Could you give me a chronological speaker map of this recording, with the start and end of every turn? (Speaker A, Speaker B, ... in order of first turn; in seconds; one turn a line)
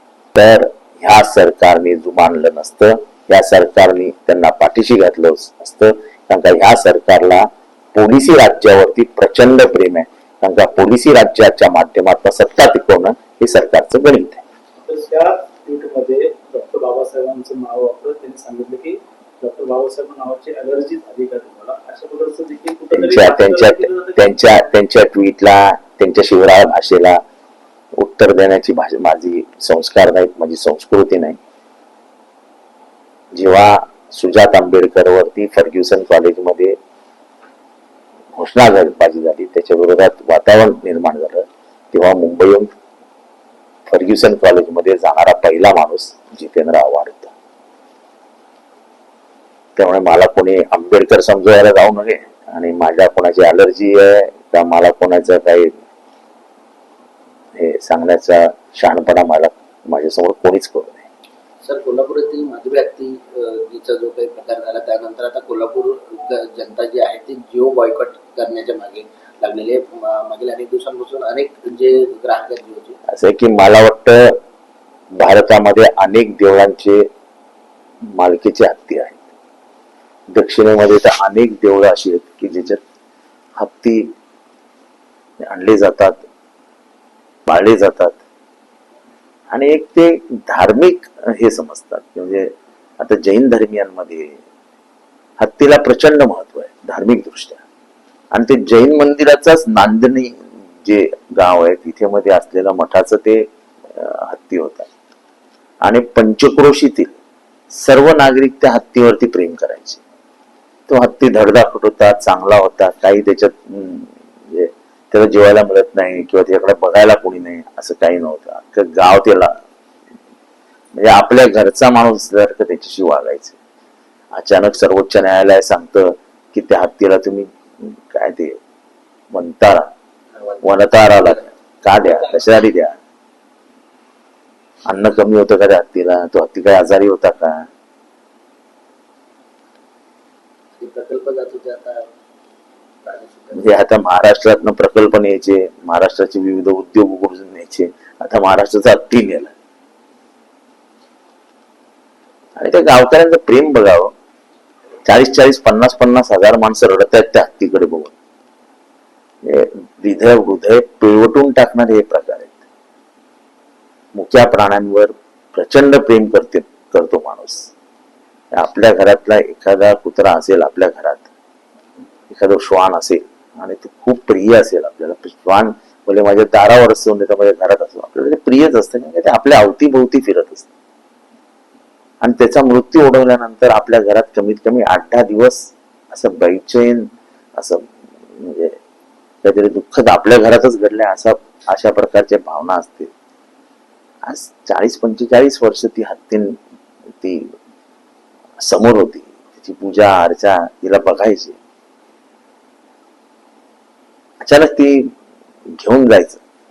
Speaker A: 0.3-14.4
Speaker B: 14.8-24.7
Speaker A: 22.9-27.2
Speaker A: 28.0-31.4
Speaker A: 33.3-36.8
Speaker A: 38.4-42.7
Speaker A: 43.9-47.3
Speaker A: 49.8-55.7
Speaker A: 57.6-61.1
Speaker C: 61.6-73.0
Speaker A: 73.1-74.4
Speaker A: 75.2-77.1
Speaker A: 78.1-79.2
Speaker A: 80.3-82.8
Speaker A: 83.6-84.1
Speaker A: 85.4-86.2
Speaker A: 87.5-88.2
Speaker A: 89.5-94.4
Speaker A: 95.4-97.6
Speaker A: 98.3-104.9
Speaker A: 105.8-107.1
Speaker A: 107.7-110.0
Speaker A: 110.9-119.6
Speaker A: 120.9-123.6
Speaker A: 124.3-128.6
Speaker A: 129.3-129.9
Speaker C: 130.4-131.5
Speaker A: 130.6-133.0
Speaker C: 132.1-132.5
Speaker A: 134.8-137.7
Speaker C: 140.8-142.1
Speaker C: 143.1-143.8
Speaker A: 143.5-149.5
Speaker A: 152.6-154.1
Speaker A: 155.1-158.1
Speaker A: 159.4-162.6
Speaker A: 164.2-167.7
Speaker A: 168.5-171.3
Speaker A: 172.3-180.7
Speaker A: 182.2-188.8
Speaker A: 189.4-193.1
Speaker A: 194.2-196.6
Speaker A: 197.2-197.5
Speaker A: 198.6-201.6
Speaker A: 204.4-205.1
Speaker A: 205.8-206.4